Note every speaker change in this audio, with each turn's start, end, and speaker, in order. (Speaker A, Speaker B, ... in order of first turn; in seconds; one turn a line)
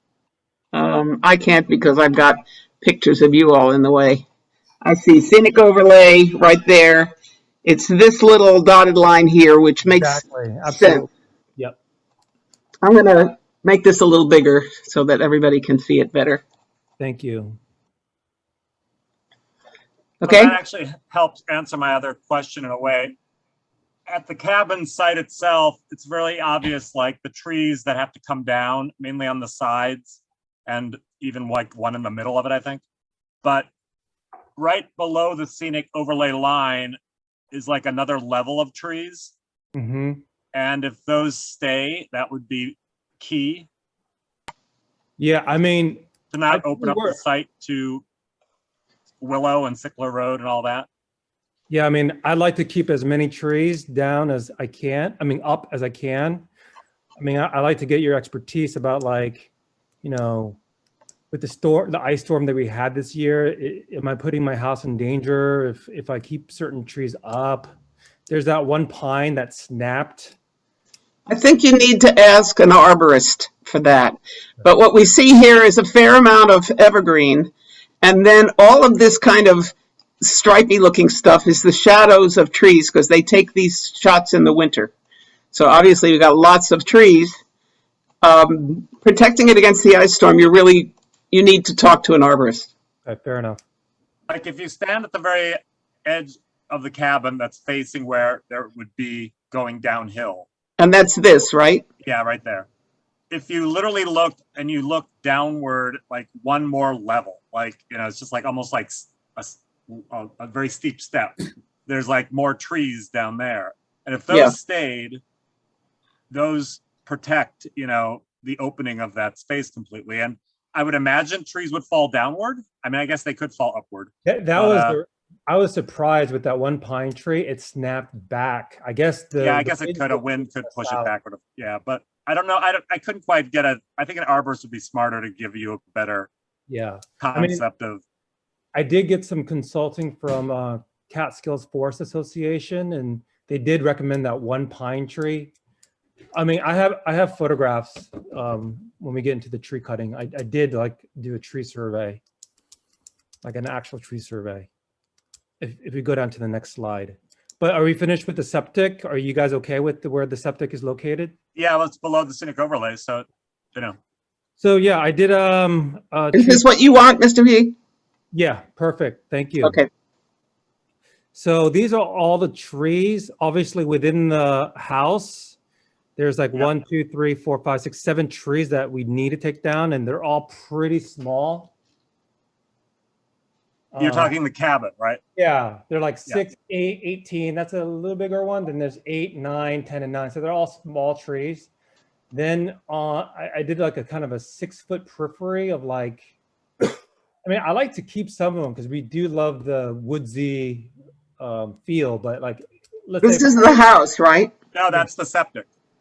Speaker A: 0.7-4.2
Speaker A: 4.8-11.1
Speaker B: 9.8-11.8
Speaker A: 12.8-16.4
Speaker B: 17.0-17.6
Speaker A: 20.2-20.6
Speaker C: 20.2-23.1
Speaker C: 24.1-32.8
Speaker C: 33.4-33.7
Speaker C: 34.6-37.0
Speaker C: 37.5-39.3
Speaker B: 39.8-40.2
Speaker C: 40.5-43.7
Speaker B: 45.2-47.2
Speaker C: 46.3-48.0
Speaker C: 49.2-50.9
Speaker B: 51.7-56.5
Speaker B: 57.2-59.5
Speaker B: 60.0-60.6
Speaker B: 61.3-67.7
Speaker B: 68.3-70.4
Speaker A: 71.3-84.9
Speaker A: 85.5-87.3
Speaker A: 88.2-92.7
Speaker B: 93.1-93.6
Speaker C: 94.3-100.5
Speaker A: 100.8-101.9
Speaker C: 102.0-102.7
Speaker C: 103.3-115.2
Speaker A: 114.3-114.5
Speaker C: 116.3-125.0
Speaker B: 124.2-131.1
Speaker C: 129.4-136.3
Speaker B: 136.7-137.6
Speaker C: 137.2-138.0
Speaker B: 138.8-145.5
Speaker B: 146.3-152.2
Speaker B: 153.4-154.7
Speaker B: 155.6-161.3
Speaker C: 161.6-164.0
Speaker B: 164.6-166.7
Speaker A: 166.3-167.8
Speaker B: 168.3-169.8
Speaker A: 169.6-169.9
Speaker B: 171.3-175.6
Speaker B: 176.2-181.7
Speaker B: 183.9-184.3
Speaker C: 184.0-185.2
Speaker B: 185.4-191.7
Speaker B: 192.3-196.2
Speaker B: 197.4-203.8
Speaker A: 203.2-204.5
Speaker C: 204.7-205.7